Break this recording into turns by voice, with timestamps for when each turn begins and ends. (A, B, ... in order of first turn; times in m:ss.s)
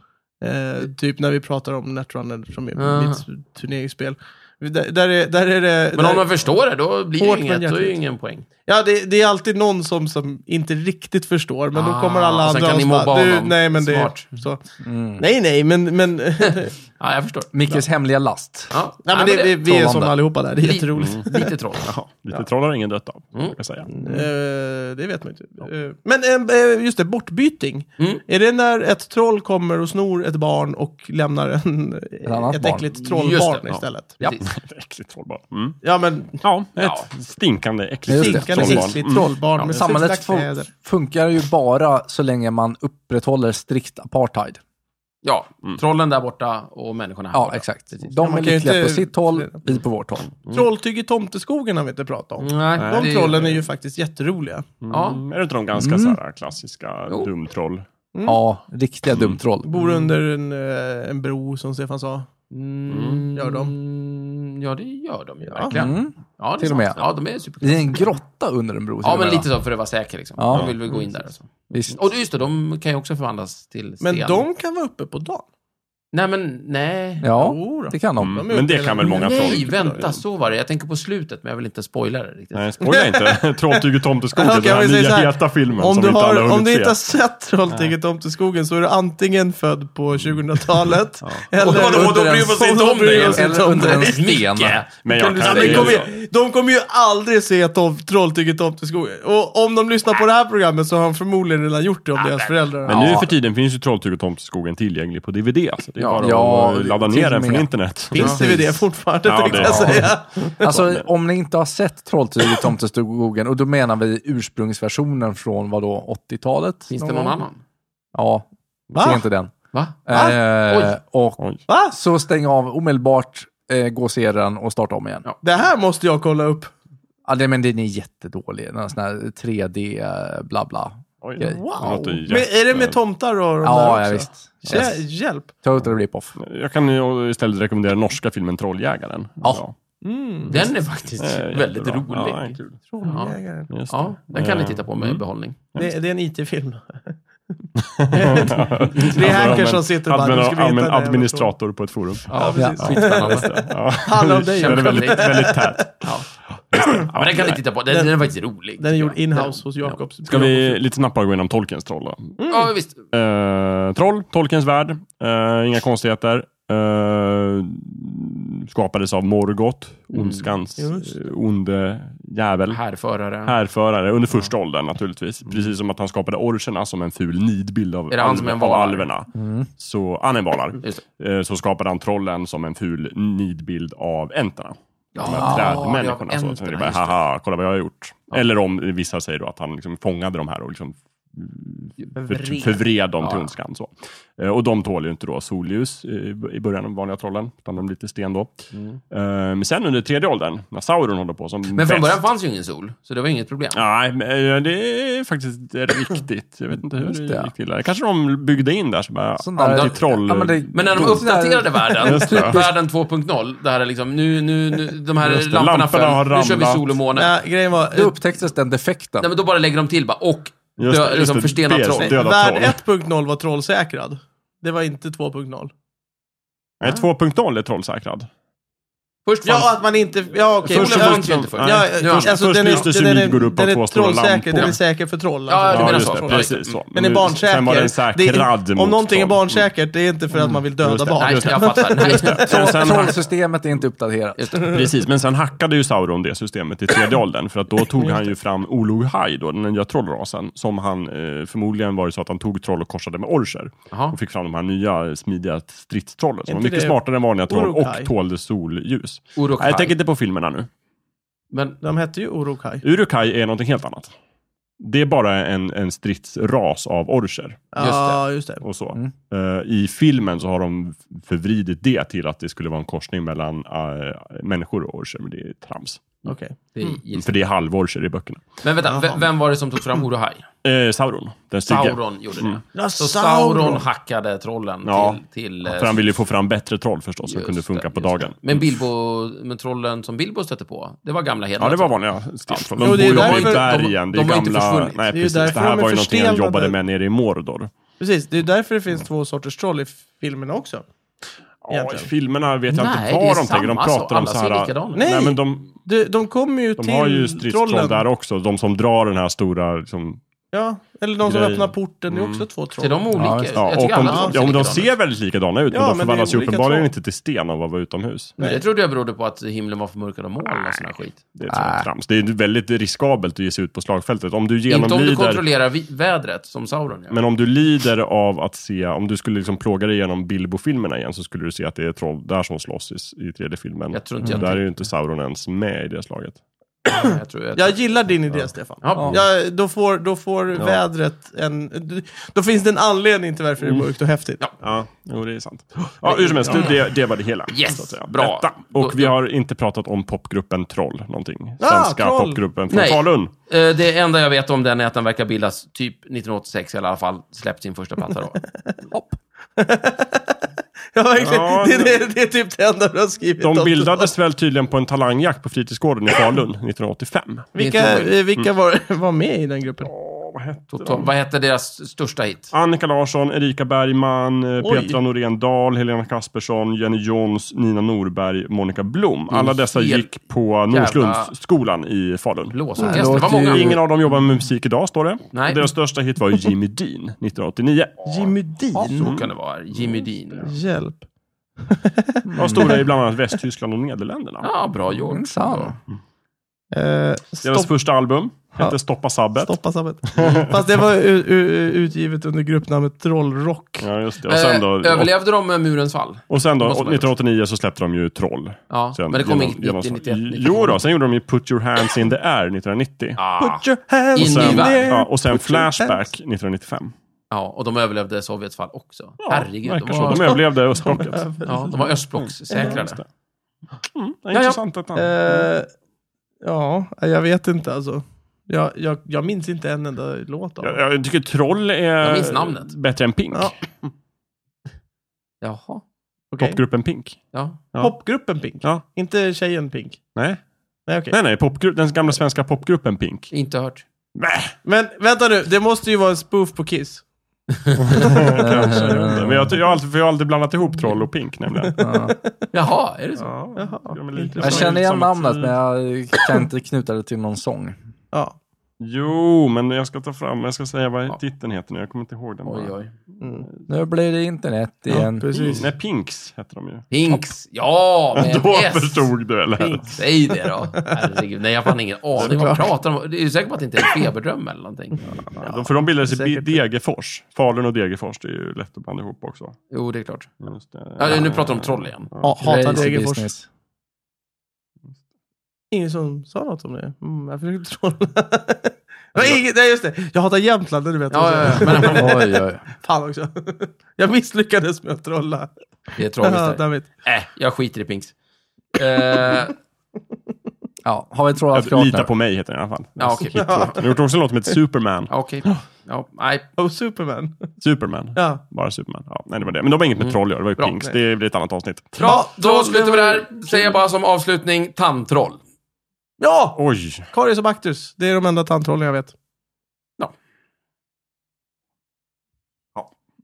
0:00.4-0:06.3 A
0:02.8-0:03.2 B
0:05.9-0:08.5 B
0:07.2-0:08.0 A
0:08.7-0:14.6 A
0:11.7-0:14.4 B
0:14.8-0:15.2 C
0:15.2-0:16.8 A
0:16.4-0:17.8 B
0:17.5-0:18.7 C
0:18.7-0:19.6 B
0:19.1-0:21.6 A
0:19.6-0:20.2 C
0:20.6-0:21.9 B
0:21.0-0:21.2 D
0:21.8-0:23.9 D
0:23.9-0:34.2 A
0:32.3-0:32.8 C
0:32.9-0:34.5 B
0:34.4-0:35.8 D
0:35.8-0:36.4 A
0:36.4-0:39.3 D
0:36.8-0:37.1 B
0:38.1-0:40.7 A
0:38.1-0:39.0 C
0:39.7-0:44.6 C
0:45.2-0:48.1 B
0:47.3-0:50.3 C
0:48.2-0:49.8 A
0:50.5-0:54.7 A
0:52.4-0:53.6 B
0:52.8-0:53.5 D
0:54.8-0:57.9 D
0:54.9-0:55.2 B
0:55.8-0:56.2 C
0:58.1-0:58.4 A
0:58.3-0:59.7 C
0:59.1-0:59.4 D
0:59.6-1:02.3 A
0:59.8-1:00.1 B
1:02.5-1:08.1 B
1:02.9-1:03.2 D
1:03.4-1:03.7 A
1:05.5-1:05.8 A
1:05.7-1:07.0 C
1:07.6-1:09.5 C
1:09.0-1:14.4 B
1:10.4-1:10.7 C
1:11.7-1:12.0 C
1:14.0-1:15.5 A
1:16.1-1:17.3 B
1:17.2-1:18.4 C
1:17.4-1:20.1 A
1:18.2-1:20.2 D
1:19.0-1:22.8 B
1:22.5-1:27.0 D
1:22.8-1:34.3 A
1:30.9-1:31.5 D
1:31.5-1:36.1 B
1:31.8-1:32.1 C
1:33.3-1:34.9 C
1:35.0-1:36.1 D
1:35.4-1:43.3 A
1:42.2-1:43.2 B
1:42.8-1:48.3 D
1:42.9-1:43.3 C
1:46.0-1:46.3 B
1:46.2-1:48.8 C
1:48.1-1:50.8 A
1:48.2-1:48.5 B
1:49.2-1:51.1 D
1:50.6-1:57.0 C
1:56.9-1:57.6 B
1:57.0-1:57.4 A
1:58.1-1:59.5 C
1:58.9-1:59.3 A
1:59.7-2:00.1 B
2:00.1-2:05.2 C
2:00.1-2:00.9 A
2:01.7-2:02.0 A
2:05.4-2:06.7 A
2:07.2-2:11.6 C
2:11.2-2:13.0 D
2:11.5-2:15.5 A
2:13.6-2:15.0 C
2:15.6-2:16.4 C
2:15.8-2:19.8 D
2:20.0-2:20.6 A
2:20.5-2:25.6 B
2:21.2-2:22.8 D
2:22.9-2:23.7 A
2:23.7-2:25.2 D
2:25.8-2:27.2 A
2:27.8-2:36.1 D
2:28.1-2:31.5 A
2:32.3-2:33.6 B
2:32.3-2:36.0 A
2:32.6-2:33.0 C
2:34.5-2:35.5 B
2:36.7-2:37.1 A
2:36.8-2:37.6 D
2:37.1-2:40.0 B
2:38.8-2:40.8 A
2:40.3-2:42.4 D
2:42.4-2:42.7 A
2:42.4-2:43.0 B
2:43.1-2:52.8 D
2:50.1-2:50.5 B
2:50.8-2:51.1 A
2:52.7-2:53.6 B
2:53.4-3:22.2 D
2:58.1-2:59.1 B
2:59.3-2:59.7 C
3:05.2-3:07.2 B
3:05.2-3:05.8 C
3:13.2-3:13.6 B
3:18.7-3:19.0 B
3:21.7-3:23.8 B
3:23.7-3:31.2 D
3:27.0-3:27.5 C
3:29.4-3:32.8 C
3:29.6-3:30.0 B
3:30.7-3:37.3 B
3:32.0-3:32.6 D
3:35.2-3:37.0 D
3:37.2-3:38.2 A
3:37.9-3:39.3 C
3:39.2-3:42.2 B
3:40.8-3:42.8 D
3:42.0-3:45.7 A
3:46.8-3:48.3 D
3:49.3-3:49.8 B
3:49.4-4:02.5 A
3:50.6-3:54.8 D
3:50.6-3:52.9 B
3:55.5-3:56.8 B
3:55.7-3:59.7 D
4:00.3-4:00.6 C
4:00.8-4:03.2 D
4:01.2-4:03.0 B
4:02.3-4:04.8 C
4:04.4-4:04.7 B
4:04.6-4:20.7 D
4:13.9-4:14.2 B
4:16.5-4:18.1 A
4:19.4-4:19.9 B
4:21.5-4:21.8 B
4:21.8-4:22.8 A
4:22.8-4:24.2 D
4:24.8-4:27.7 D
4:27.7-4:28.6 A
4:27.8-4:28.2 B
4:28.6-4:36.1 D
4:36.2-4:37.0 A
4:36.2-4:37.4 B
4:37.2-4:38.5 D
4:38.6-4:40.5 B
4:40.6-4:42.6 D
4:41.7-4:46.0 B
4:42.8-4:43.8 A
4:44.8-4:48.7 D
4:47.2-4:55.0 B
4:51.6-4:57.7 D
4:52.8-4:53.9 A
4:55.1-4:56.8 A
4:58.0-5:00.8 A
5:01.6-5:05.8 D
5:01.7-5:02.1 A
5:02.7-5:05.1 B
5:04.9-5:08.0 A
5:06.8-5:10.2 D
5:10.5-5:13.1 A
5:11.2-5:12.5 D
5:12.8-5:14.9 B
5:13.1-5:13.5 C
5:13.6-5:18.4 D
5:13.9-5:14.4 A
5:15.7-5:16.9 A
5:18.4-5:18.6 A
5:18.4-5:21.2 B
5:20.4-5:25.4 D
5:21.5-5:21.9 C
5:24.7-5:27.2 B
5:27.1-5:36.4 D
5:33.9-5:34.8 B
5:36.9-5:38.0 B
5:36.9-5:44.4 A
5:38.8-5:39.2 B
5:43.6-5:43.9 D
5:44.6-5:53.3 D
5:46.0-5:46.7 A
5:46.5-5:46.8 B
5:47.5-5:49.1 B
5:51.6-5:52.4 A
5:52.7-5:58.4 B
5:58.9-5:59.2 C
5:59.6-6:00.4 A
6:01.0-6:04.1 A
6:01.2-6:02.0 D
6:03.4-6:07.5 D
6:07.6-6:09.9 A
6:07.6-6:08.2 B
6:09.8-6:11.1 D
6:10.7-6:12.5 B
6:12.5-6:28.4 D
6:14.6-6:15.0 A
6:19.3-6:21.3 B
6:22.5-6:23.8 B
6:22.8-6:23.8 C
6:25.3-6:25.7 B
6:28.0-6:29.2 A
6:28.8-6:29.0 C
6:28.9-6:30.0 D
6:28.9-6:30.5 B
6:30.4-6:31.0 A
6:31.6-6:32.8 A
6:32.2-6:32.8 C
6:32.4-6:34.5 D
6:34.4-6:35.8 B
6:35.1-6:35.8 C
6:36.7-6:37.7 A
6:37.4-6:39.5 D
6:39.4-6:43.9 A
6:40.1-6:40.6 D
6:43.8-6:45.1 D
6:44.3-6:47.1 B
6:46.3-6:53.2 D
6:48.7-6:50.8 B
6:53.2-6:55.0 B
6:53.4-6:56.0 A
6:54.2-6:56.9 D
6:57.3-7:00.4 B
6:59.2-7:03.0 D
7:00.1-7:01.9 A
7:01.4-7:03.0 B
7:02.5-7:02.8 A
7:03.8-7:05.5 D
7:04.3-7:04.6 B
7:04.9-7:05.7 A
7:06.4-7:10.8 A
7:10.6-7:13.5 D
7:12.0-7:12.7 B
7:15.4-7:15.8 B
7:16.3-7:16.6 A
7:16.4-7:17.2 D
7:17.3-7:17.6 B
7:17.8-7:20.0 A
7:20.2-7:20.4 D
7:20.9-7:21.2 A
7:21.1-7:23.3 D
7:23.3-7:23.8 B
7:24.2-7:24.5 D
7:24.6-7:27.0 A
7:27.7-7:28.2 B
7:27.8-7:31.8 D
7:28.0-7:29.3 A
7:28.4-7:29.6 C
7:31.6-7:32.3 A
7:31.8-7:32.2 C
7:32.5-7:33.3 B
7:33.2-7:35.6 D
7:33.6-7:34.8 A
7:34.4-7:37.8 C
7:38.8-7:42.7 D
7:42.4-7:42.9 B
7:43.2-7:43.5 A
7:43.7-7:45.3 C
7:44.9-7:45.7 A
7:45.3-7:46.9 D
7:46.9-7:49.1 B
7:48.1-7:50.0 D
7:49.6-7:50.0 A
7:49.8-7:55.0 B
7:52.2-7:52.7 A
7:55.3-7:59.6 D
7:55.4-7:56.6 A
7:59.7-8:00.3 B
8:00.4-8:02.4 D
8:01.0-8:02.9 B
8:02.2-8:03.3 A
8:02.4-8:03.5 C
8:05.7-8:16.9 A
8:11.1-8:12.3 B
8:11.9-8:12.6 C
8:16.0-8:18.1 B
8:18.7-8:19.6 B
8:20.8-8:22.1 C
8:21.5-8:25.1 D
8:23.0-8:23.8 B
8:23.3-8:23.9 A
8:25.1-8:26.4 B
8:26.6-8:27.5 A
8:27.6-8:32.1 D
8:28.2-8:28.4 A
8:30.0-8:30.8 B
8:32.0-8:35.4 B
8:32.0-8:33.8 A
8:36.2-8:39.1 A
8:36.6-8:37.1 D